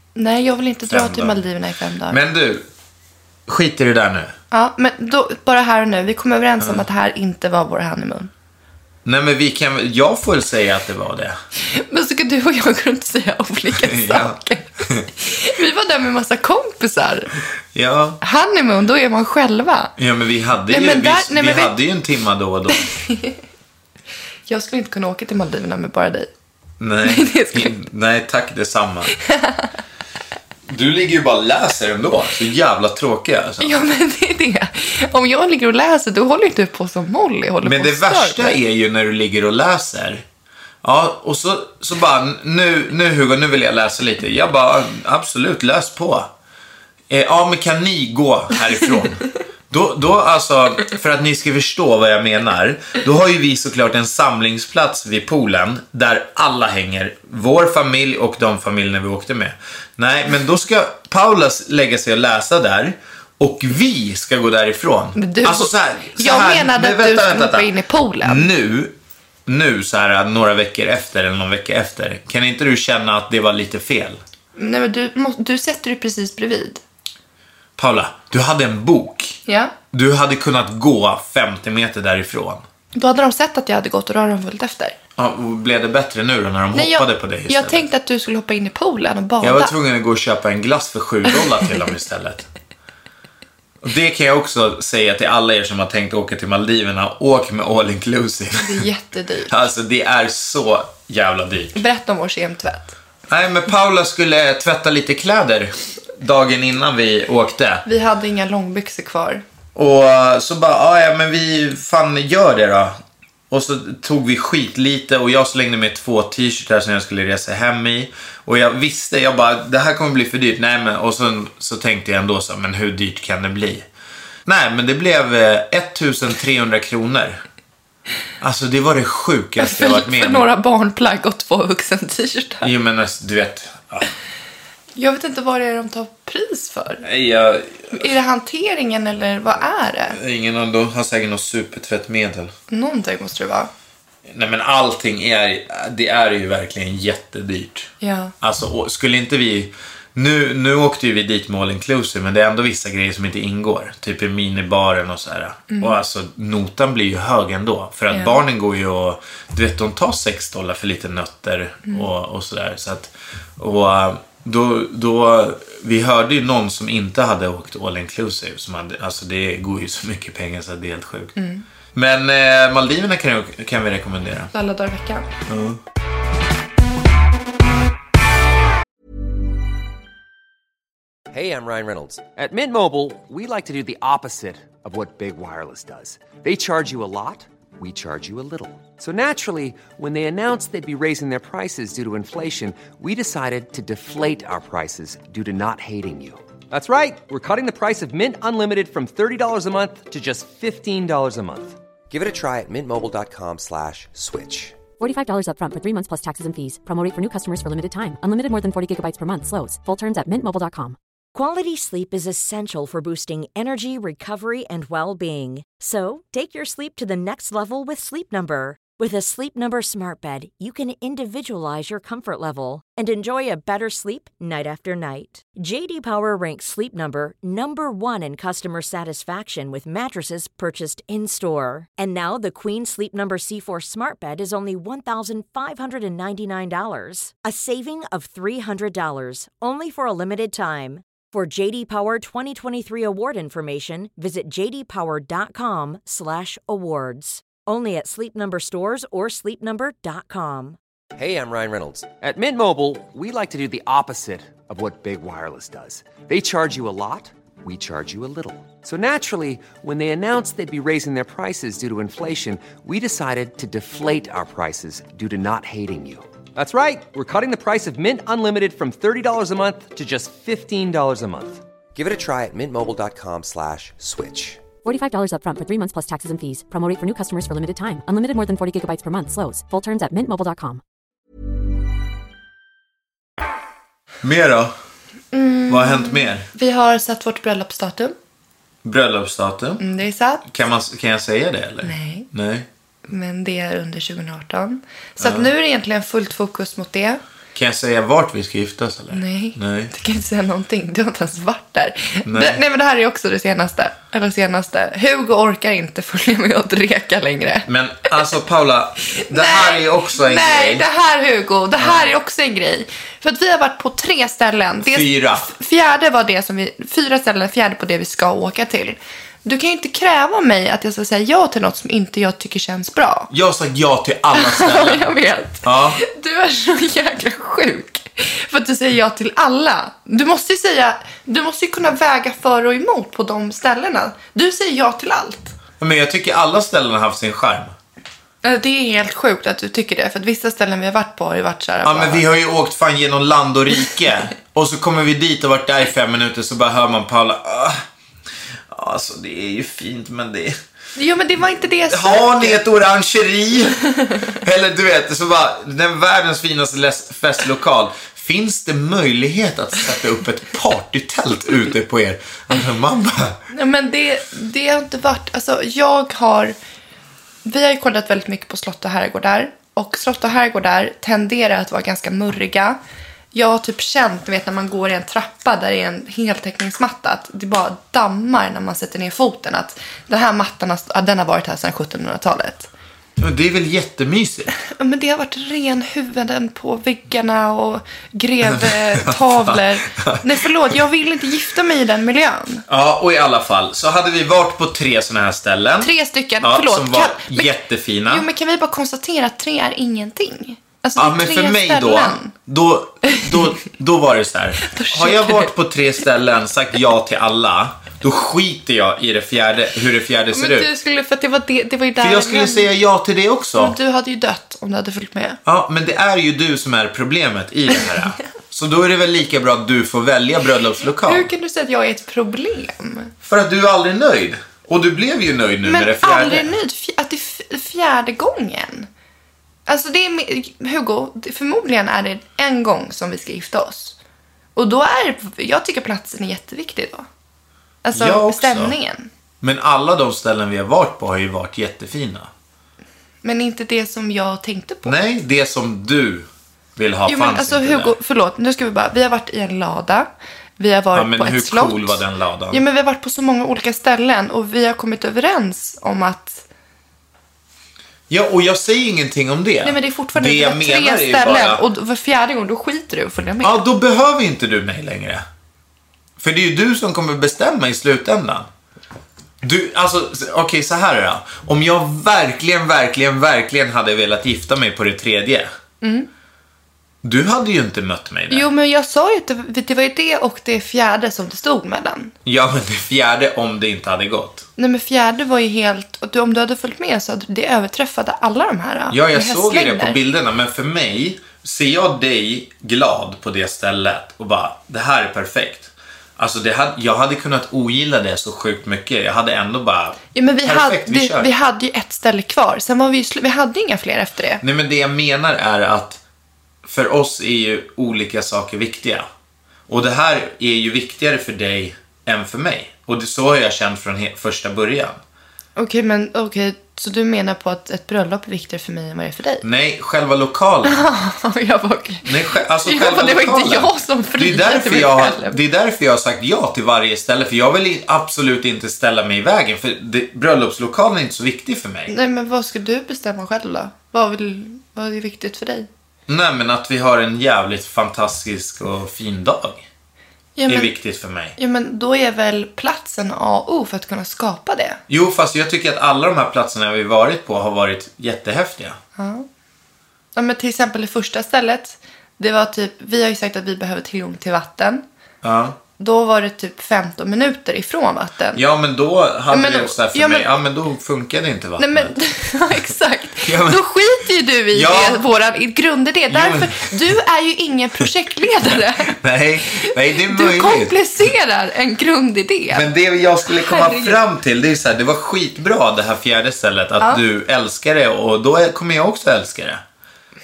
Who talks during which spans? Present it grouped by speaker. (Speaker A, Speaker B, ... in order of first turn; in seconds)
Speaker A: 0.1-2.2, 4.5-8.3, 11.7-17.3, 18.2-19.9, 20.7-21.8, 22.8-23.4, 24.5-26.3, 27.0-27.7, 29.2-29.7, 33.6-38.6, 65.2-68.5, 74.5-76.8, 79.5-79.7, 82.9-85.0, 86.7-89.7, 98.6-99.6, 101.7-103.0, 107.8-109.4, 129.6-132.7, 134.9-137.0, 137.9-140.2, 142.7-143.7, 148.0-148.3, 155.7-155.9, 158.1-158.4, 171.4-171.6, 174.5-175.3, 285.3-288.1, 289.8-290.4, 291.8-292.3, 293.1-297.2, 299.1-308.1, 309.1-323.3, 324.3-335.5, 338.4-342.2, 350.9-352.6, 363.5-366.6, 367.4-372.8, 373.3-382.7, 384.7-392.6, 395.8-397.5, 398.1-402.3, 403.1-403.5, 404.6-405.5, 410.3-412.7, 413.6-415.4, 421.0-423.1, 425.6-428.9, 429.7-434.0, 434.6-437.1, 437.8-439.1, 443.2-445.0, 447.1-456.4, 459.6-463.6, 475.8-476.1, 478.3-482.1, 484.6-490.0, 500.1-504.4, 515.6-519.4, 520.6-525.4, 531.9-535.7, 540.4-540.7, 541.4-544.8, 549.0-549.2, 550.1-554.8, 555.8-558.4, 559.3-560.3, 561.6-569.0, 569.5-572.7, 573.3-574.0
Speaker B: 0.9-1.4, 2.1-2.6, 3.5-4.3, 9.0-11.4, 13.8-15.1, 17.7-18.2, 20.0-22.9, 26.8-29.1, 30.7-33.9, 37.6-40.2, 40.8-46.3, 47.1-67.7, 68.2-74.2, 77.8-79.4, 79.9-82.6, 85.2-87.8, 89.4-92.5, 93.8-98.8, 99.5-101.8, 103.3-107.8, 109.7-113.0, 113.5-123.9, 124.5-127.4, 128.4-130.5, 132.6-134.1, 137.0-138.1, 140.1-142.5, 144.2-171.3, 171.9-174.5, 175.5-175.8, 284.2-284.7, 285.7-286.5, 288.8-289.8, 290.4-292.7, 295.2-295.5, 297.5-299.9, 302.2-302.6, 307.7-310.9, 314.8-315.5, 323.3-325.1, 325.6-326.0, 335.8-337.7, 341.8-347.8, 348.7-350.6, 351.9-363.4, 383.2-384.5, 388.4-390.8, 392.7-398.3, 400.9-410.7, 412.0-413.8, 415.4-421.3, 423.2-426.5, 437.9-438.7, 439.4-442.3, 444.8-447.9, 450.9-452.6, 458.1-461.6, 463.4-465.2, 466.2-468.5, 469.4-475.5, 477.0-478.5, 482.2-484.4, 488.9-501.3, 504.4-506.0, 506.6-509.1, 509.7-515.0, 519.4-520.9, 522.0-531.9, 536.1-539.7, 540.5-541.4, 544.9-548.8, 555.2-555.6, 558.3-562.0, 563.2-563.7, 564.5-565.1, 566.1-566.9, 568.4-570.8, 572.5-579.6
Speaker C: 181.3-204.8, 251.2-274.6
Speaker D: 205.0-211.0, 274.8-280.8
Speaker E: 211.3-250.8